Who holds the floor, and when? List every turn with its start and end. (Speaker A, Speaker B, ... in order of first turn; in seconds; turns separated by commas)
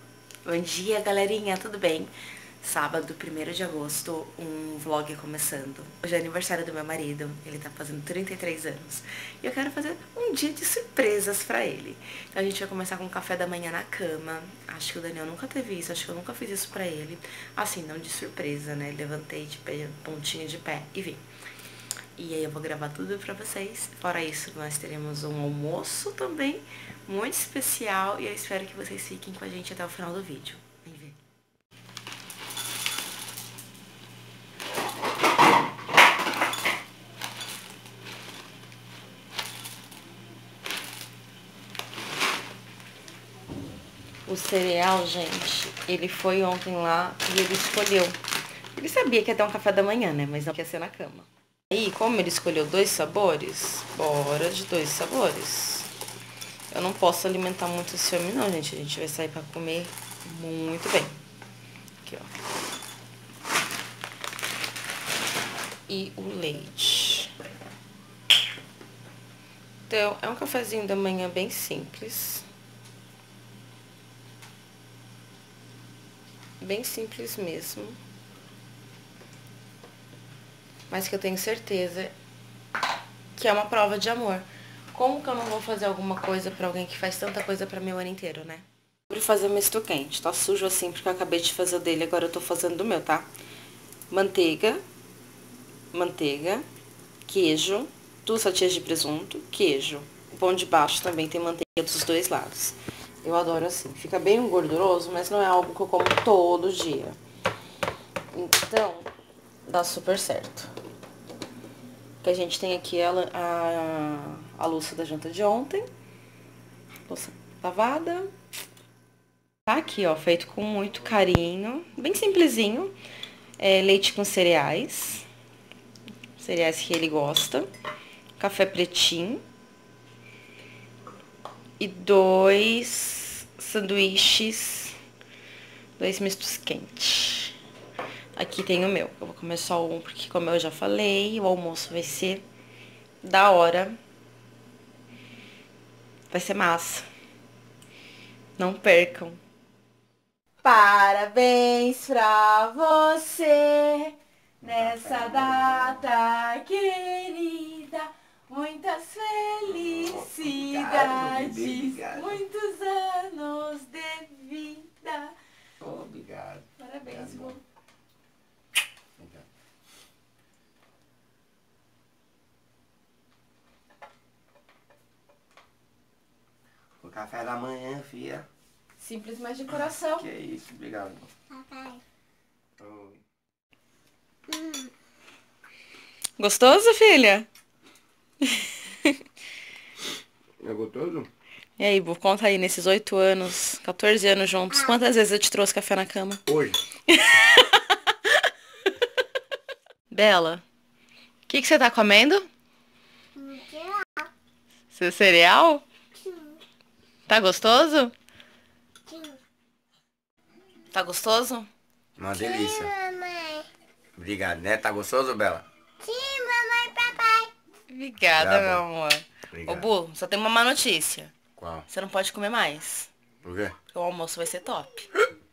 Speaker A: 0.5-2.1, Speaker A: 2.6-21.2, Speaker A: 22.2-31.2, Speaker A: 44.3-48.2, Speaker A: 48.7-55.9, Speaker A: 56.7-61.2, Speaker A: 62.0-62.3, Speaker A: 65.9-67.3, Speaker A: 69.9-72.5, Speaker A: 76.6-78.0, Speaker A: 80.9-82.2, Speaker A: 83.4-93.3, Speaker A: 94.1-94.8, Speaker A: 95.9-96.7, Speaker A: 97.3-107.2, Speaker A: 108.3-109.1, Speaker A: 109.7-110.7, Speaker A: 112.2-115.9, Speaker A: 117.1-118.3, Speaker A: 119.7-123.0, Speaker A: 123.6-125.3, Speaker A: 126.4-127.7, Speaker A: 128.4-129.4, Speaker A: 131.8-135.0, Speaker A: 136.0-137.6, Speaker A: 138.3-142.4, Speaker A: 143.2-144.0, Speaker A: 146.3-147.1, Speaker A: 148.6-149.4, Speaker A: 150.6-165.3, Speaker B: 154.8-155.8, Speaker B: 159.7-162.4, Speaker B: 165.8-167.5, Speaker A: 166.8-167.6, Speaker B: 177.0-178.5, Speaker A: 179.0-180.2, Speaker B: 180.2-181.3, Speaker C: 181.5-182.0, Speaker B: 182.8-183.2, Speaker C: 184.5-184.8, Speaker A: 186.4-187.5, Speaker B: 190.6-191.3, Speaker A: 191.8-196.4, Speaker B: 196.5-196.8, Speaker A: 197.1-197.8, Speaker A: 200.1-200.6, Speaker A: 201.5-202.5, Speaker C: 203.4-204.3, Speaker A: 204.9-205.8, Speaker A: 207.3-208.1, Speaker C: 209.1-209.4, Speaker A: 210.9-211.7, Speaker B: 212.2-212.9, Speaker C: 212.3-213.7, Speaker B: 214.2-215.7, Speaker C: 216.0-217.5, Speaker A: 217.9-221.3, Speaker B: 218.4-218.8, Speaker B: 221.6-221.8, Speaker A: 221.9-223.1, Speaker B: 223.4-223.7, Speaker A: 223.9-225.1